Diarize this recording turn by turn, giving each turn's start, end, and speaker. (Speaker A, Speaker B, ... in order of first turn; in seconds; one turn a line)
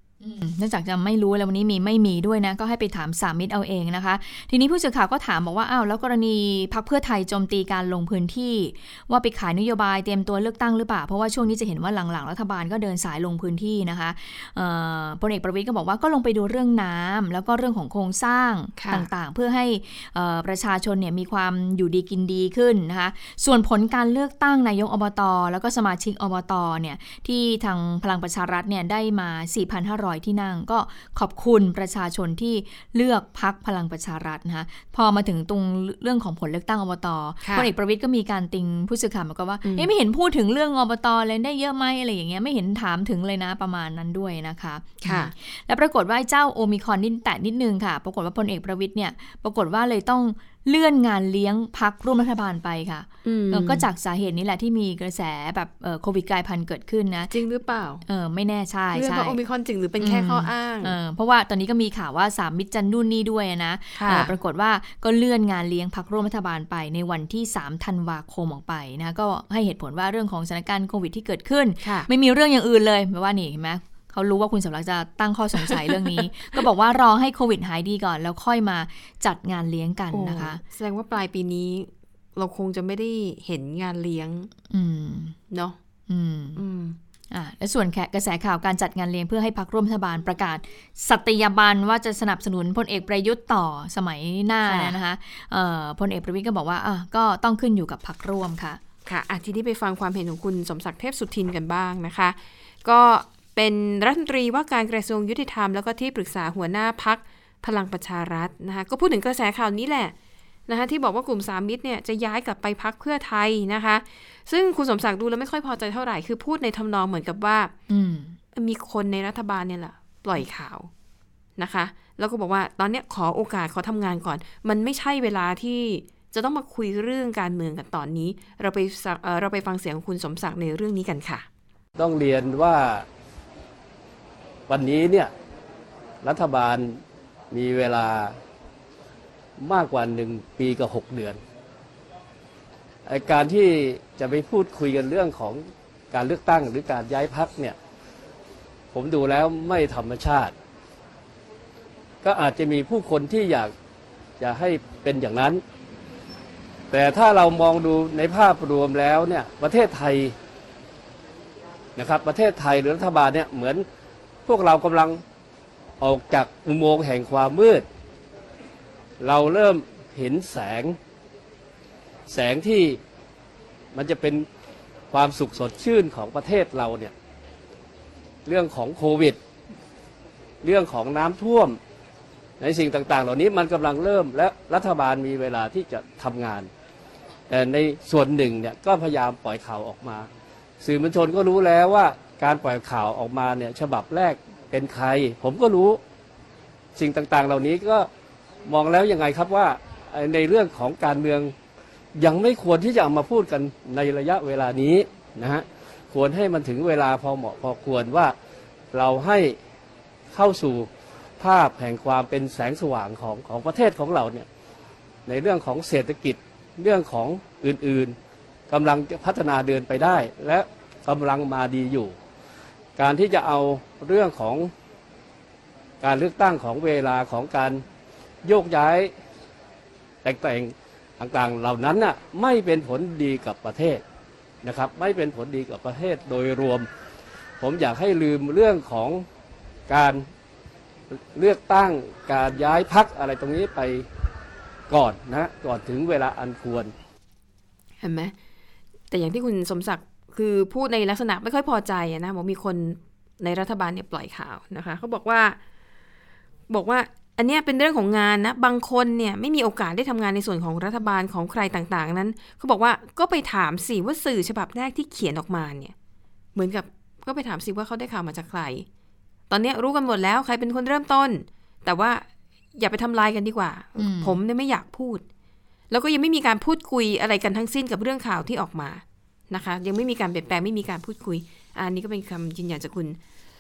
Speaker A: 0.2-57.3
Speaker B: 18.8-19.1
Speaker B: 37.4-37.7
Speaker B: 39.6-39.9
Speaker B: 45.0-45.3
Speaker B: 53.2-53.9
Speaker B: 57.3-58.0
Speaker A: 58.1-59.4
Speaker B: 58.9-61.0
Speaker A: 60.0-80.6
Speaker B: 64.0-64.3
Speaker B: 71.8-72.1
Speaker B: 75.7-76.2
Speaker B: 80.1-84.5
Speaker A: 84.7-85.4
Speaker B: 85.5-85.8
Speaker A: 86.1-86.6
Speaker B: 86.6-87.0
Speaker A: 87.3-98.8
Speaker B: 94.6-95.0
Speaker B: 99.1-110.1
Speaker B: 110.7-117.7
Speaker A: 117.9-118.4
Speaker B: 118.5-120.9
Speaker B: 121.6-131.5
Speaker C: 132.0-133.1
Speaker C: 134.7-135.3
Speaker C: 136.2-138.4
Speaker C: 139.6-141.4
Speaker C: 143.1-147.8
Speaker C: 148.9-150.5
Speaker C: 152.2-153.7
Speaker C: 154.4-155.6
Speaker C: 156.9-160.3
Speaker C: 162.0-163.8
Speaker C: 164.4-165.2
Speaker C: 166.0-167.9
Speaker C: 169.2-171.0
Speaker C: 172.3-173.0
Speaker C: 173.9-174.5
Speaker C: 175.1-177.1
Speaker C: 178.5-179.4
Speaker C: 180.6-181.8
Speaker C: 182.6-186.7
Speaker C: 187.5-190.3
Speaker C: 190.8-196.0
Speaker C: 197.0-198.1
Speaker C: 198.7-201.5
Speaker C: 202.2-208.3
Speaker C: 208.9-209.6
Speaker C: 210.3-214.5
Speaker C: 215.3-218.2
Speaker C: 218.7-222.2
Speaker C: 223.0-224.7
Speaker C: 226.0-227.8
Speaker C: 228.4-229.1
Speaker C: 230.2-234.0
Speaker C: 234.6-236.9
Speaker C: 237.6-239.2
Speaker C: 239.9-240.3
Speaker C: 241.3-244.1
Speaker C: 244.9-246.9
Speaker B: 248.0-248.3
Speaker B: 249.1-255.6
Speaker B: 256.7-265.9
Speaker B: 266.6-268.9
Speaker B: 269.5-272.3
Speaker B: 272.8-275.2
Speaker A: 274.0-274.4
Speaker B: 275.9-283.2